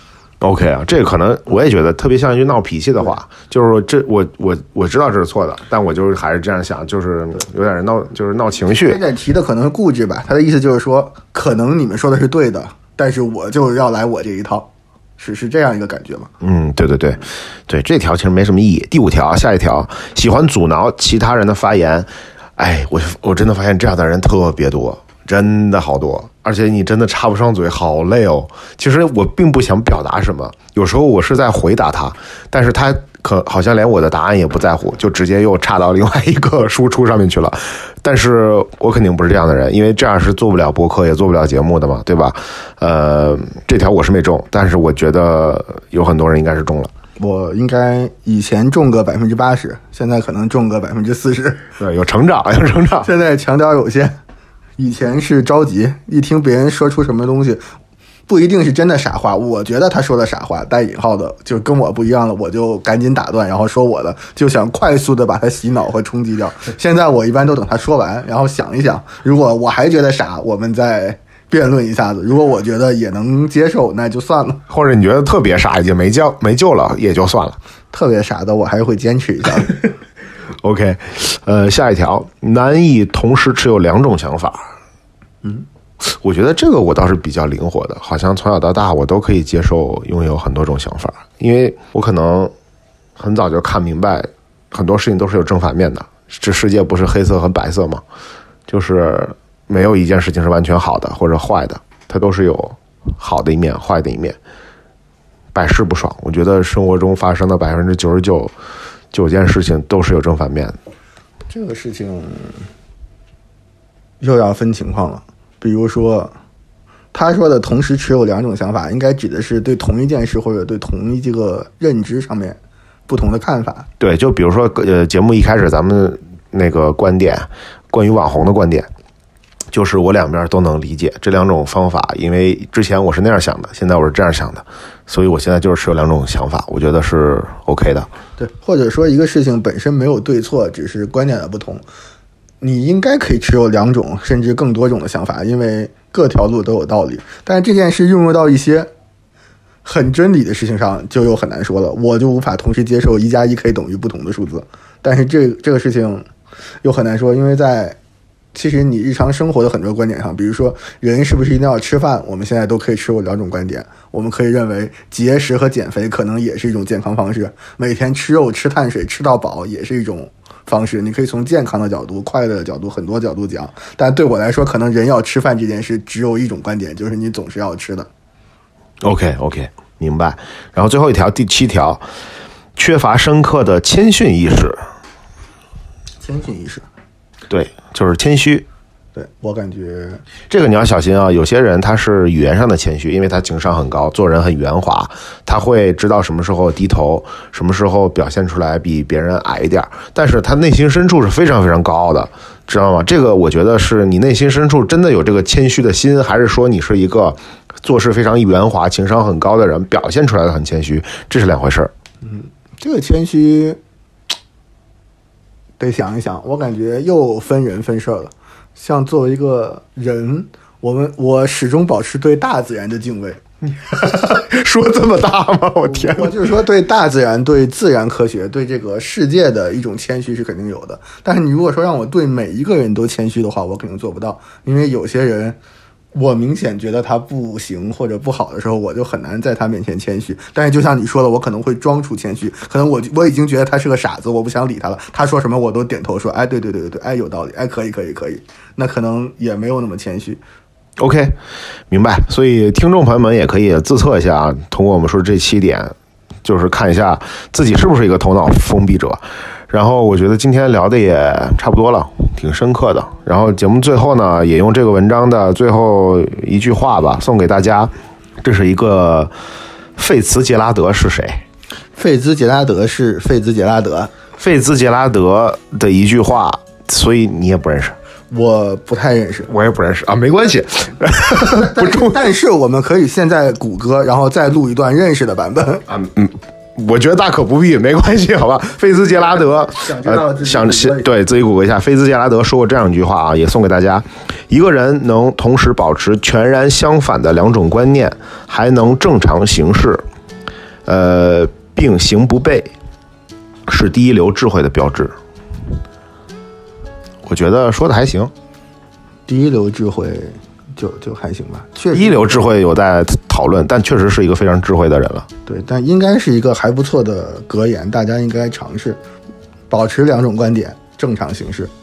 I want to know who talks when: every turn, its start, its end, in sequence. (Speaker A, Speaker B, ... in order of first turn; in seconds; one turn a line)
Speaker A: 0.4-9.0
Speaker B: 8.8-16.3
Speaker A: 16.4-46.9
Speaker B: 47.2-51.6
Speaker A: 51.8-53.1
Speaker B: 53.0-54.2
Speaker B: 54.8-57.6
Speaker B: 58.3-74.6
Speaker A: 74.7-77.6
Speaker B: 77.9-79.9
Speaker A: 80.6-84.6
Speaker A: 86.0-92.5
Speaker A: 93.2-98.0
Speaker A: 98.7-104.3
Speaker A: 105.5-108.5
Speaker A: 109.1-110.8
Speaker B: 111.5-112.7
Speaker B: 114.2-116.3
Speaker B: 117.1-123.9
Speaker A: 124.0-128.9
Speaker A: 129.7-138.1
Speaker B: 138.4-141.8
Speaker B: 142.6-148.9
Speaker B: 149.8-156.2
Speaker B: 156.8-158.0
Speaker B: 158.5-178.1
Speaker A: 179.0-182.0
Speaker A: 182.8-184.8
Speaker B: 186.2-186.8
Speaker A: 187.5-188.7
Speaker B: 189.1-190.2
Speaker A: 190.5-211.9
Speaker B: 212.2-213.8
Speaker B: 215.8-223.4
Speaker A: 223.7-226.3
Speaker B: 225.9-235.6
Speaker B: 236.1-250.4
Speaker A: 251.0-251.3
Speaker A: 251.9-267.9
Speaker A: 268.4-269.3
Speaker A: 270.0-271.4
Speaker B: 272.0-274.1
Speaker A: 274.4-277.9
Speaker B: 278.3-279.5
Speaker A: 279.5-282.1
Speaker B: 281.3-285.9
Speaker A: 285.9-300.0
Speaker B: 289.4-291.1
Speaker A: 300.9-302.7
Speaker A: 303.7-305.1
Speaker A: 307.2-308.3
Speaker B: 309.3-312.4
Speaker A: 311.9-315.3
Speaker B: 315.4-319.0
Speaker B: 319.7-321.7